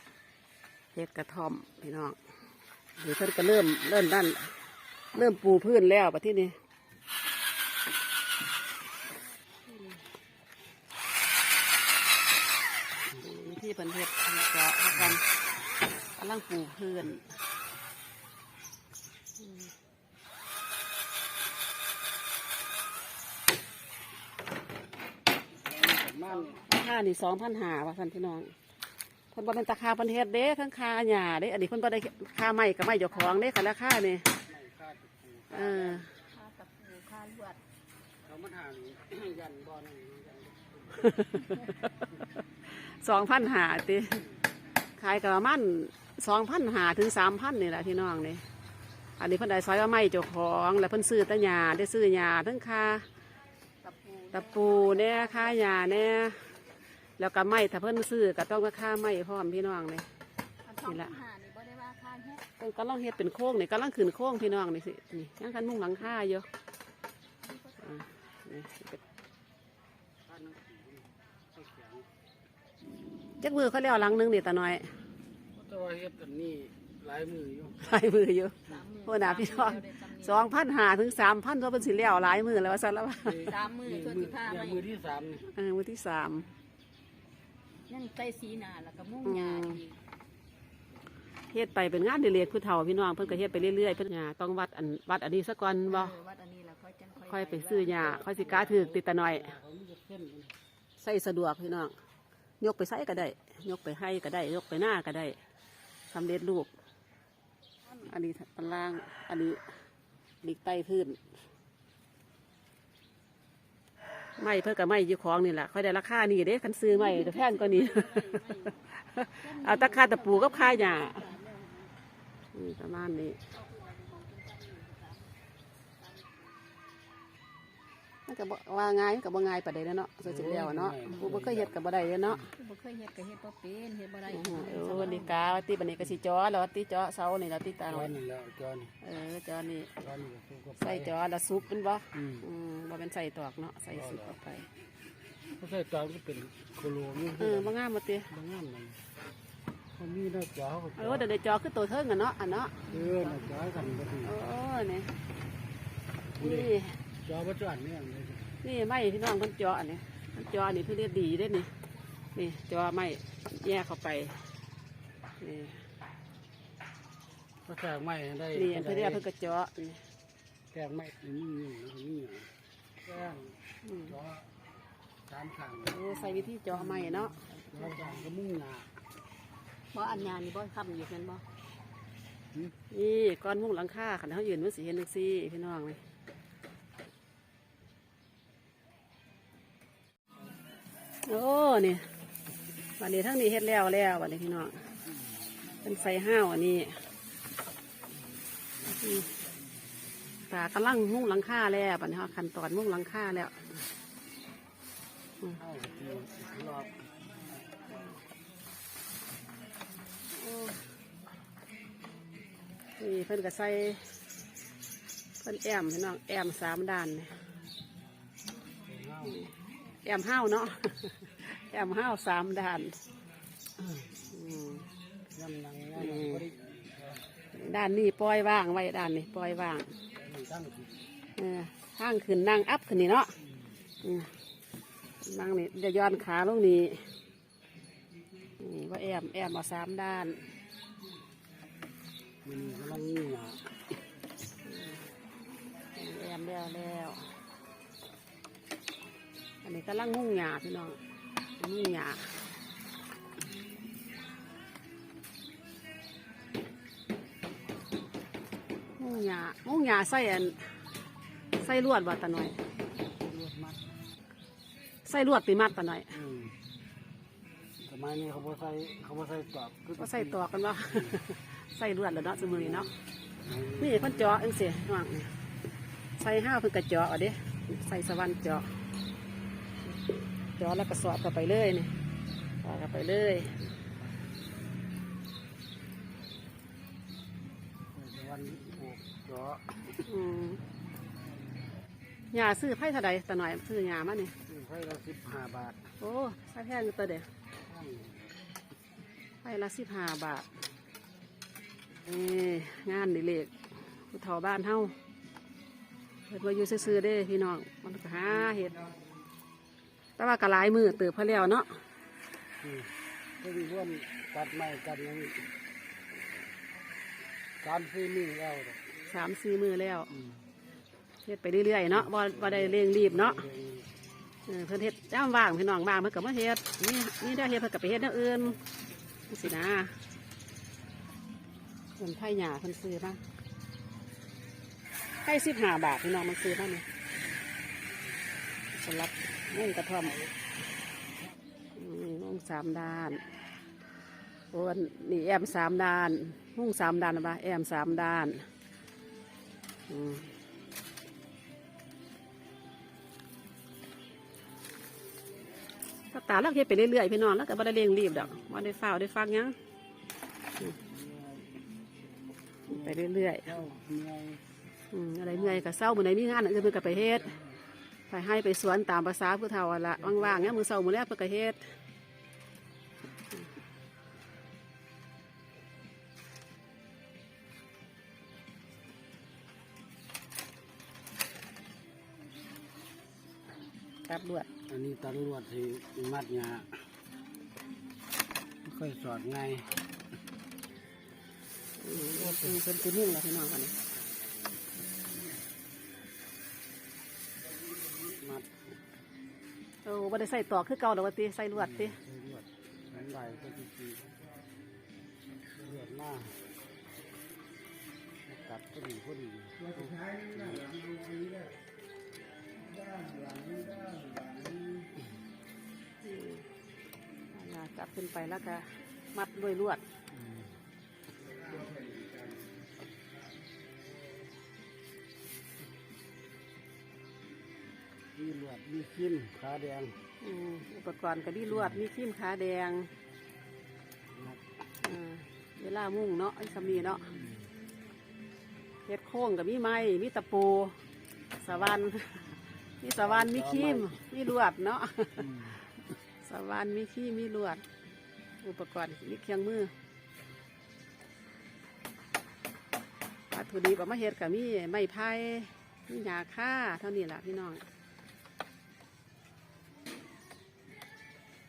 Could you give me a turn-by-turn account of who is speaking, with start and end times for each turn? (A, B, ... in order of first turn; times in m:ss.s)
0:00.9-0:02.2 A
0:03.0-0:04.6 A
0:05.2-0:06.6 A
0:13.2-0:15.2 A
0:16.2-0:17.3 A
0:25.6-0:26.6 B
0:26.4-0:28.5 A
0:29.3-0:34.3 A
0:33.1-0:33.6 C
0:34.5-0:36.1 B
0:35.5-0:36.1 A
0:36.2-0:37.6 C
0:38.2-0:41.3 B
0:41.0-0:42.0 A
0:42.7-0:44.2 A
0:45.0-0:48.4 A
0:49.2-0:53.1 A
0:53.8-0:56.4 C
0:54.3-0:56.4 A
0:57.2-1:00.1 A
1:00.6-1:02.5 C
1:00.8-1:01.1 A
1:02.6-1:06.5 A
1:07.5-1:08.0 C
1:07.8-1:09.0 A
1:10.2-1:12.1 B
1:13.4-1:14.9 A
1:15.6-1:17.8 B
1:17.8-1:23.5 A
1:18.7-1:20.6 C
1:23.2-1:25.5 B
1:23.4-1:24.9 C
1:25.5-1:26.5 A
1:27.9-1:30.0 C
1:29.2-1:29.8 A
1:31.5-1:36.2 A
1:35.9-1:38.3 C
1:37.3-1:39.6 A
1:37.9-1:40.5 B
1:41.0-1:42.0 A
1:42.6-1:45.4 A
1:46.1-1:46.7 A
1:48.0-1:49.6 A
1:50.4-1:51.2 A
1:54.4-2:01.2 A
1:56.8-1:58.8 C
1:59.4-2:01.9 C
2:02.5-2:03.4 A
2:03.5-2:05.3 C
2:06.0-2:06.4 C
2:08.3-2:12.4 A
2:10.2-2:11.8 B
2:12.4-2:15.4 C
2:14.3-2:18.1 A
2:17.9-2:18.9 B
2:19.0-2:19.9 A
2:20.0-2:21.2 B
2:20.8-2:24.7 A
2:22.1-2:22.5 B
2:23.9-2:24.3 B
2:25.6-2:27.7 B
2:27.4-2:28.3 A
2:28.3-2:29.0 B
2:30.0-2:31.3 B
2:31.0-2:33.4 A
2:32.9-2:34.4 B
2:34.2-2:35.1 A
2:36.4-2:38.5 B
2:36.4-2:37.0 A
2:38.6-2:41.7 A
2:42.4-2:44.5 A
2:45.4-2:45.8 A
2:47.6-2:49.3 B
2:48.5-2:50.0 A
2:50.7-2:52.5 B
2:53.0-2:54.5 B
2:53.8-2:54.1 A
2:55.3-2:58.9 B
2:55.9-2:57.5 A
2:57.7-2:58.3 C
2:59.9-3:01.4 C
3:02.9-3:06.0 A
3:11.2-3:12.1 A
3:13.0-3:14.9 A
3:15.8-3:17.0 A
3:19.0-3:19.3 A
3:20.5-3:23.6 A
3:25.6-3:27.0 B
3:30.3-3:30.8 A
3:33.0-3:34.1 A
3:35.4-3:37.3 A
3:38.9-3:39.4 B
3:40.0-3:43.0 A
3:44.2-3:44.9 A
3:45.3-3:47.2 B
3:46.0-3:46.4 A
3:47.5-3:49.9 A
3:50.2-3:51.0 B
3:51.4-3:53.3 A
3:54.0-3:54.3 A
3:55.2-3:57.1 A
3:58.6-4:00.4 A
4:02.4-4:03.8 B
4:04.6-4:05.1 A
4:06.0-4:07.3 A
4:09.6-4:11.0 A
4:11.6-4:12.3 A
4:19.0-4:20.7 A
4:21.6-4:22.6 A
4:23.0-4:23.9 B
4:25.0-4:26.2 A
4:26.1-4:26.6 B
4:27.8-4:31.2 B
4:30.0-4:32.9 A
4:32.4-4:34.4 B
4:33.8-4:35.3 A
4:36.2-4:38.7 A
4:40.6-4:41.9 A
4:42.6-4:43.6 A
4:47.9-4:49.8 B
4:50.0-4:50.6 A
4:52.3-4:54.4 A
4:54.5-4:55.9 B
4:56.0-4:57.3 A
4:57.6-4:58.4 B
4:59.4-5:00.5 A
5:02.0-5:05.0 A
5:06.3-5:08.8 A
5:10.2-5:11.8 A
5:12.6-5:15.5 B
5:17.6-5:18.8 B
5:19.1-5:20.1 A
5:20.1-5:20.4 B
5:21.2-5:23.4 A
5:21.9-5:23.9 B
5:24.5-5:28.6 A
5:29.3-5:30.0 A
5:32.0-5:33.2 A
5:35.2-5:36.9 A
5:38.7-5:40.2 A
5:41.7-5:43.2 A
5:44.5-5:48.5 A
5:49.9-5:50.3 A
5:56.1-5:59.6 A
6:00.6-6:01.6 B
6:02.6-6:04.4 B
6:02.7-6:03.5 A
6:04.9-6:07.4 A
6:05.2-6:05.8 B
6:08.1-6:11.6 A
6:10.0-6:10.6 B
6:24.1-6:24.5 A
6:24.7-6:26.8 B
6:28.6-6:29.8 B
6:31.8-6:33.8 A
6:31.9-6:32.6 B
6:38.2-6:38.5 B
6:39.8-6:42.0 A
6:41.6-6:44.2 B
6:45.6-6:46.4 B
6:48.3-6:51.4 B
6:52.8-6:55.0 B
6:56.0-6:56.5 A
6:57.3-6:59.8 A
7:00.1-7:00.5 B
7:08.2-7:10.0 B
7:10.2-7:12.9 A
7:14.1-7:14.4 B
7:14.8-7:17.1 A
7:17.2-7:17.4 B
7:18.9-7:20.8 A
7:21.4-7:25.5 A
7:23.0-7:24.0 B
7:25.2-7:25.6 B
7:26.2-7:27.6 A
7:28.4-7:29.7 A
7:33.3-7:37.6 A